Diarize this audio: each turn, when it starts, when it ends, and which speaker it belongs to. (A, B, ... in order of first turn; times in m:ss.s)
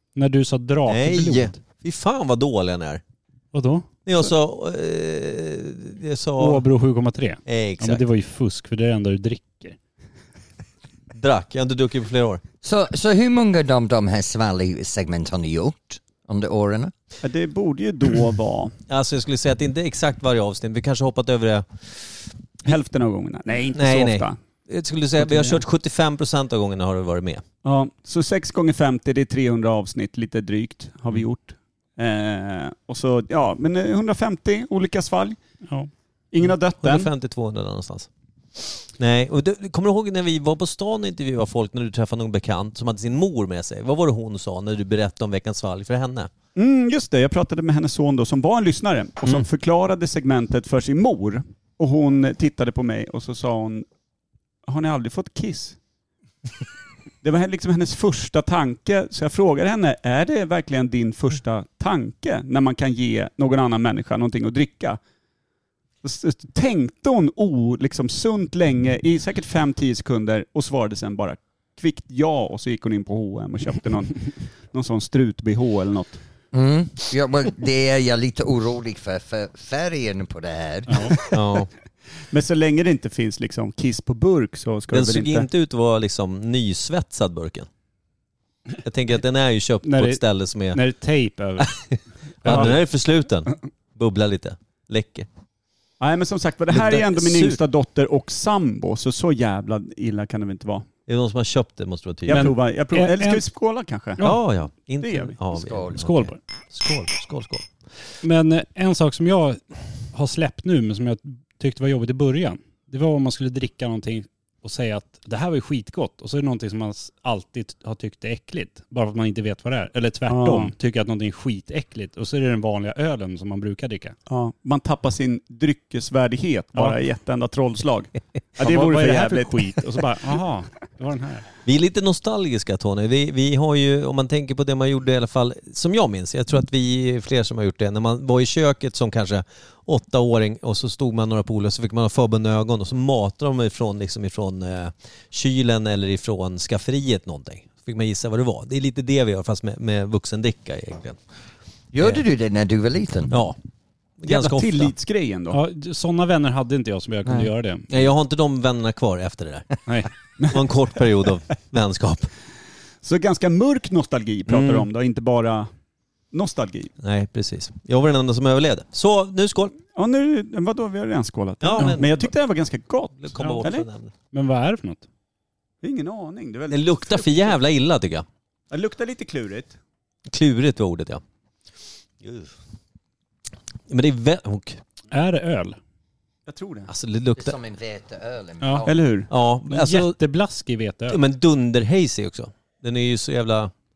0:00.2-0:01.6 A
0:00.8-0:03.0 B
0:03.5-0:03.9 A
0:04.0-0:06.6 B
0:06.4-0:09.8 A
0:07.4-0:08.0 B
0:11.1-0:12.4 B
0:12.6-0:16.9 C
0:17.2-0:18.8 D
0:18.9-0:22.3 B
0:22.6-0:24.3 D
0:23.7-0:27.4 B
0:25.2-0:25.6 D
0:27.6-0:35.4 D
0:36.3-0:37.1 D
0:36.8-0:38.1 B
0:38.9-0:46.3 B
0:46.6-0:53.8 D
0:54.6-0:55.8 D
0:57.2-1:05.0 D
1:06.0-1:16.2 D
1:16.5-1:21.2 C
1:20.9-1:21.2 A
1:21.3-1:21.7 B
1:22.3-1:25.5 D
1:24.9-1:27.7 B
1:28.8-1:30.8 B
1:29.8-1:31.7 A
1:31.6-1:35.3 B
1:32.4-1:32.8 A
1:32.5-1:32.7 D
1:36.0-1:40.9 D
1:36.7-1:37.6 B
1:41.1-1:42.6 B
1:42.3-1:44.2 D
1:42.3-1:43.4 A
1:44.2-1:47.7 B
1:45.0-1:45.3 D
1:45.5-1:46.0 C
1:45.9-1:46.4 A
1:48.2-1:49.6 A
1:50.1-2:04.2 A
2:00.3-2:00.7 D
2:04.3-2:09.8 D
2:08.6-2:11.4 A
2:11.6-2:31.2 B
2:31.9-2:33.4 C
2:33.3-2:33.6 B
2:34.2-2:34.9 B
2:34.3-2:35.6 D
2:35.5-2:38.1 A
2:37.9-2:39.7 B
2:40.4-2:42.3 B
2:43.0-2:45.7 D
2:44.5-2:44.9 B
2:46.3-2:46.9 D
2:47.0-2:49.8 B
2:49.9-2:53.9 D
2:51.6-2:52.3 B
2:53.2-2:54.1 B
2:54.3-2:55.0 A
2:55.8-2:57.6 D
2:56.7-2:58.2 B
2:58.7-2:59.7 D
3:00.3-3:01.2 B
3:02.2-3:02.5 B
3:03.9-3:04.8 B
3:05.1-3:05.8 A
3:06.5-3:06.9 D
3:06.9-3:07.5 B
3:07.4-3:09.0 C
3:08.6-3:08.9 A
3:08.8-3:09.3 D
3:09.3-3:10.2 B
3:09.7-3:11.2 A
3:11.1-3:13.7 B